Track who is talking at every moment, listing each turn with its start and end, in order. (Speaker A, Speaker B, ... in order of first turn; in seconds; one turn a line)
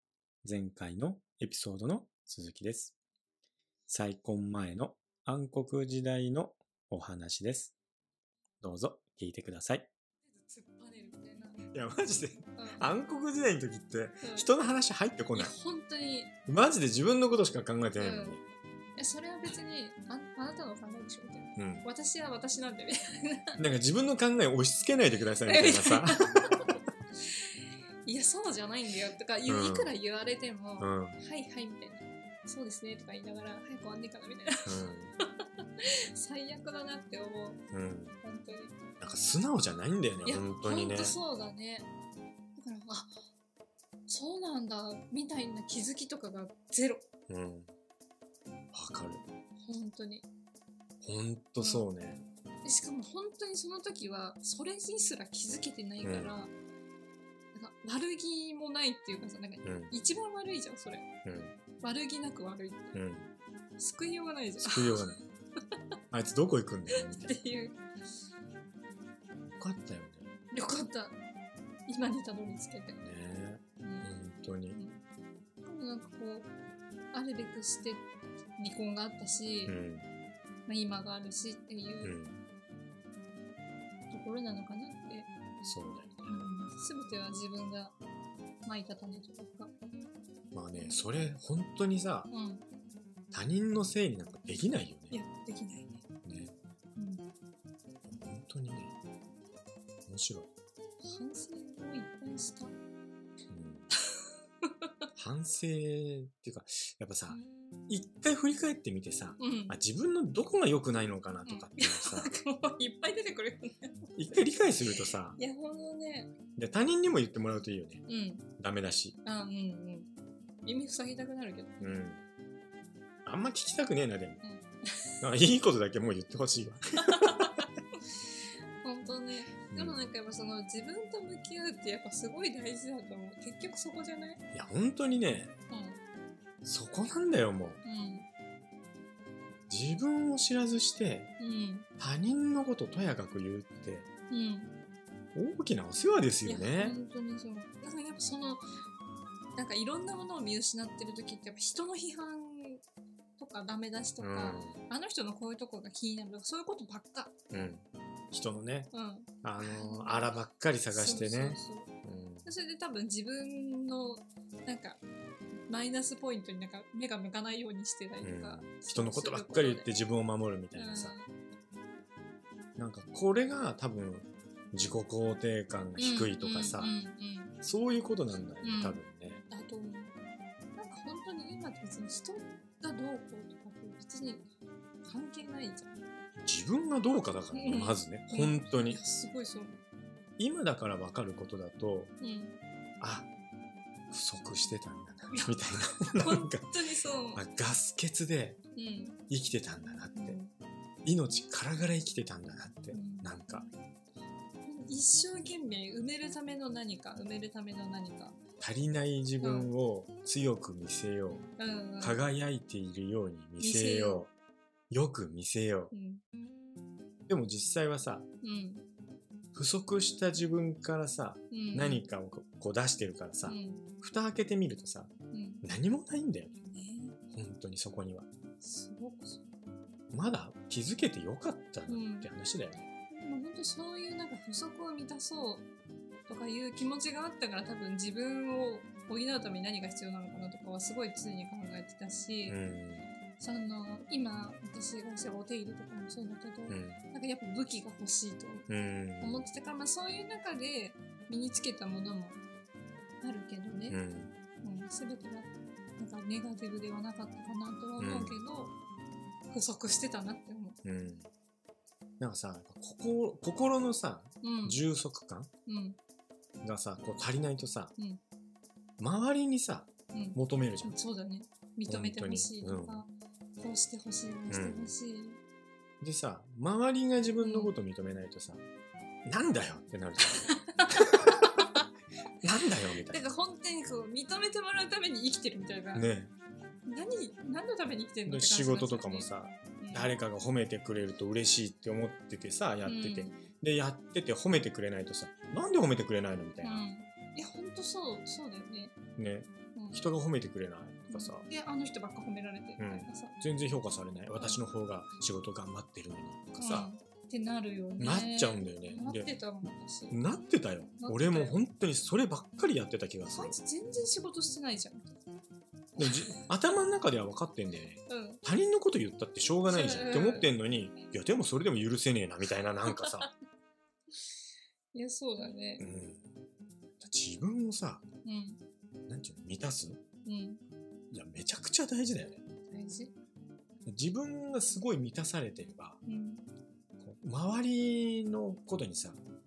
Speaker A: 0.4-2.9
Speaker A: 3.9-7.7
Speaker A: 8.6-9.9
Speaker B: 10.2-11.7
Speaker A: 11.7-15.5
Speaker B: 12.6-12.8
Speaker B: 14.2-14.5
Speaker B: 15.3-16.3
Speaker A: 16.5-18.4
Speaker B: 18.0-18.4
Speaker B: 18.9-23.6
Speaker A: 21.6-21.8
Speaker A: 23.6-26.3
Speaker B: 25.5-37.6
Speaker A: 29.4-29.9
Speaker A: 30.8-31.2
Speaker A: 34.6-35.1
Speaker A: 37.7-38.2
Speaker B: 38.2-38.8
Speaker A: 39.0-41.2
Speaker B: 40.2-41.9
Speaker B: 42.5-43.2
Speaker B: 44.1-47.1
Speaker A: 47.3-47.7
Speaker A: 48.7-49.2
Speaker B: 49.6-50.2
Speaker A: 51.0-52.2
Speaker B: 51.6-51.9
Speaker B: 52.6-56.5
Speaker A: 56.0-56.3
Speaker B: 57.5-61.1
Speaker A: 59.6-59.9
Speaker A: 61.2-61.5
Speaker B: 61.8-63.0
Speaker A: 62.9-63.3
Speaker B: 63.8-65.0
Speaker A: 64.6-65.2
Speaker A: 66.1-67.4
Speaker B: 66.9-67.8
Speaker A: 69.5-70.3
Speaker B: 70.5-71.2
Speaker B: 71.9-73.0
Speaker A: 73.0-74.8
Speaker B: 73.8-74.1
Speaker B: 74.7-75.0
Speaker B: 75.6-76.5
Speaker B: 77.1-79.7
Speaker A: 79.7-80.1
Speaker B: 80.7-82.1
Speaker A: 82.0-82.4
Speaker B: 84.1-85.3
Speaker A: 85.6-86.5
Speaker B: 86.3-88.0
Speaker B: 88.6-89.7
Speaker A: 90.5-92.3
Speaker B: 90.8-91.0
Speaker B: 92.3-92.7
Speaker A: 93.3-95.2
Speaker B: 95.1-96.0
Speaker A: 96.2-96.5
Speaker B: 97.0-97.2
Speaker A: 98.0-98.9
Speaker A: 100.1-100.5
Speaker B: 101.0-102.8
Speaker A: 103.5-103.9
Speaker B: 104.0-104.9
Speaker A: 105.2-112.3
Speaker B: 109.4-109.8
Speaker B: 111.5-114.1
Speaker A: 114.2-115.4
Speaker B: 115.3-116.3
Speaker A: 116.5-118.0
Speaker B: 118.1-118.5
Speaker A: 118.6-119.2
Speaker B: 119.2-120.1
Speaker B: 120.6-121.8
Speaker A: 121.8-122.2
Speaker A: 123.2-124.4
Speaker B: 124.4-125.2
Speaker A: 125.2-127.5
Speaker B: 127.0-127.6
Speaker B: 128.8-134.4
Speaker A: 129.7-130.1
Speaker A: 134.5-135.5
Speaker B: 135.7-136.0
Speaker A: 136.6-137.8
Speaker B: 137.8-138.3
Speaker A: 139.7-141.3
Speaker B: 141.4-141.9
Speaker A: 142.0-144.1
Speaker B: 144.3-144.8
Speaker A: 145.3-146.9
Speaker B: 146.4-148.6
Speaker B: 149.6-152.8
Speaker B: 153.4-157.3
Speaker A: 154.2-154.8
Speaker A: 157.5-158.9
Speaker B: 158.9-160.3
Speaker A: 159.4-162.5
Speaker B: 160.9-161.9
Speaker B: 162.4-165.0
Speaker B: 165.7-169.9
Speaker A: 168.2-171.1
Speaker B: 170.7-171.3
Speaker A: 172.8-176.9
Speaker B: 176.0-177.6
Speaker A: 177.6-179.4
Speaker B: 178.6-180.2
Speaker B: 180.8-184.5
Speaker B: 185.0-186.0
Speaker A: 186.4-189.0
Speaker B: 187.5-189.8
Speaker A: 190.4-192.1
Speaker B: 192.2-192.6
Speaker A: 193.0-193.3
Speaker A: 194.1-196.7
Speaker B: 195.3-195.6
Speaker B: 196.1-197.4
Speaker A: 197.3-198.6
Speaker B: 198.7-199.2
Speaker A: 199.3-200.4
Speaker B: 200.2-200.5
Speaker A: 201.0-203.7
Speaker B: 202.9-203.4
Speaker B: 204.6-208.4
Speaker A: 208.6-211.5
Speaker B: 209.4-209.7
Speaker B: 211.6-212.2
Speaker A: 212.0-214.3
Speaker B: 213.6-214.2
Speaker A: 214.9-215.9
Speaker B: 215.9-216.2
Speaker A: 217.3-218.2
Speaker B: 218.4-218.8
Speaker A: 219.5-225.1
Speaker B: 221.5-222.1
Speaker B: 223.4-223.8
Speaker B: 225.3-225.6
Speaker A: 225.6-226.5
Speaker B: 226.6-227.2
Speaker A: 227.3-228.3
Speaker B: 228.6-229.4
Speaker A: 230.1-232.9
Speaker B: 231.9-232.3
Speaker B: 233.1-235.7
Speaker B: 236.3-242.6
Speaker A: 242.5-243.1
Speaker B: 243.4-248.7
Speaker A: 246.7-247.0
Speaker A: 248.7-249.5
Speaker B: 249.2-252.4
Speaker B: 253.2-254.0
Speaker A: 253.9-254.3
Speaker B: 254.6-258.7
Speaker A: 258.0-258.4
Speaker B: 259.5-260.8
Speaker A: 260.8-261.3
Speaker A: 262.2-265.5
Speaker B: 264.4-264.8
Speaker B: 265.6-266.0
Speaker A: 266.6-267.9
Speaker A: 269.0-270.9
Speaker B: 270.1-275.4
Speaker A: 271.9-273.0
Speaker A: 274.5-274.9
Speaker A: 276.0-278.6
Speaker B: 277.4-277.7
Speaker A: 279.2-280.5
Speaker B: 280.4-281.8
Speaker A: 282.4-283.3
Speaker B: 283.1-286.1
Speaker A: 285.9-286.3
Speaker B: 286.9-289.3
Speaker A: 288.3-296.9
Speaker B: 289.8-290.1
Speaker B: 292.8-293.4
Speaker B: 296.6-298.9
Speaker A: 299.2-301.4
Speaker B: 299.7-300.0
Speaker B: 301.1-303.4
Speaker A: 302.8-306.9
Speaker B: 304.3-304.6
Speaker B: 306.5-310.2
Speaker A: 308.0-309.3
Speaker A: 310.1-313.6
Speaker B: 311.0-311.6
Speaker B: 313.2-315.2
Speaker A: 316.0-323.3
Speaker B: 316.0-316.3
Speaker B: 318.1-318.4
Speaker B: 319.6-320.5
Speaker B: 322.8-323.1
Speaker B: 324.9-325.8
Speaker A: 325.8-326.3
Speaker A: 327.0-328.0
Speaker B: 328.2-328.6
Speaker A: 329.1-330.0
Speaker B: 330.2-330.6
Speaker A: 331.1-332.4
Speaker B: 332.7-333.1
Speaker A: 333.9-336.0
Speaker B: 336.0-336.4
Speaker A: 337.0-339.2